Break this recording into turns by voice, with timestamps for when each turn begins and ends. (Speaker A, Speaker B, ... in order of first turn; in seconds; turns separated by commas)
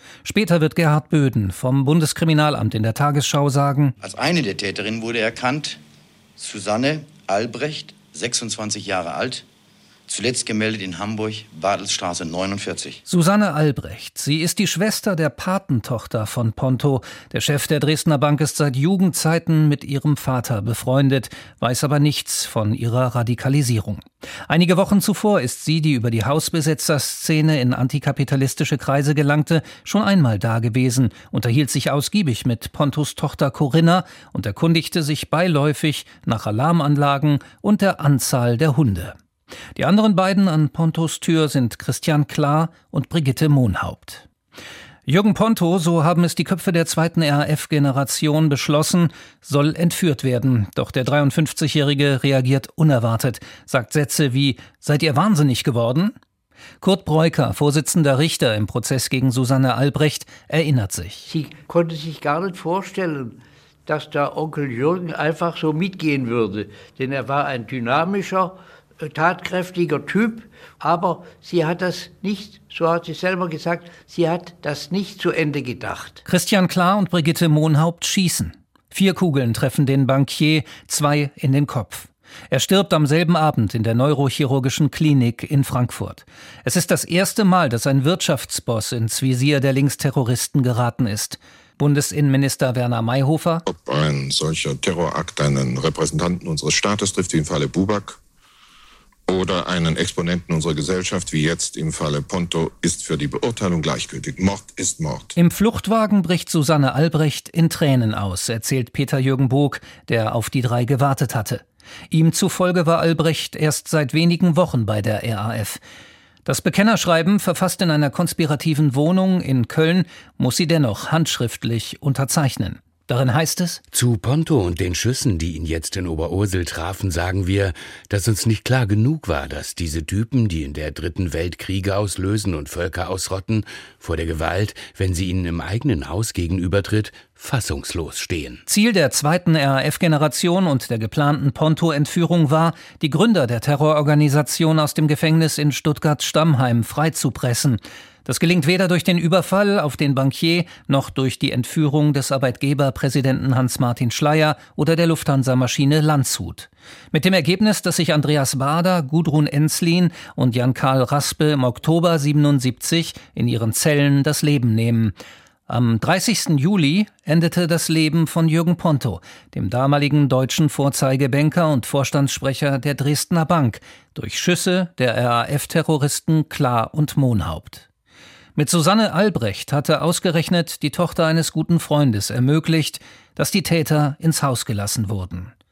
Speaker A: 0.2-4.0, Speaker B: 4.0-5.8, Speaker B: 6.4-9.4, Speaker B: 10.1-13.0, Speaker A: 13.1-39.1, Speaker A: 39.8-44.2, Speaker A: 45.1-56.1, Speaker A: 56.8-61.3, Speaker C: 61.3-76.2, Speaker A: 76.2-93.7, Speaker D: 93.7-98.2, Speaker D: 99.3-105.3, Speaker A: 105.3-115.8, Speaker A: 116.4-123.8, Speaker E: 123.9-138.6, Speaker A: 138.7-165.2, Speaker A: 165.7-177.9, Speaker A: 178.5-185.5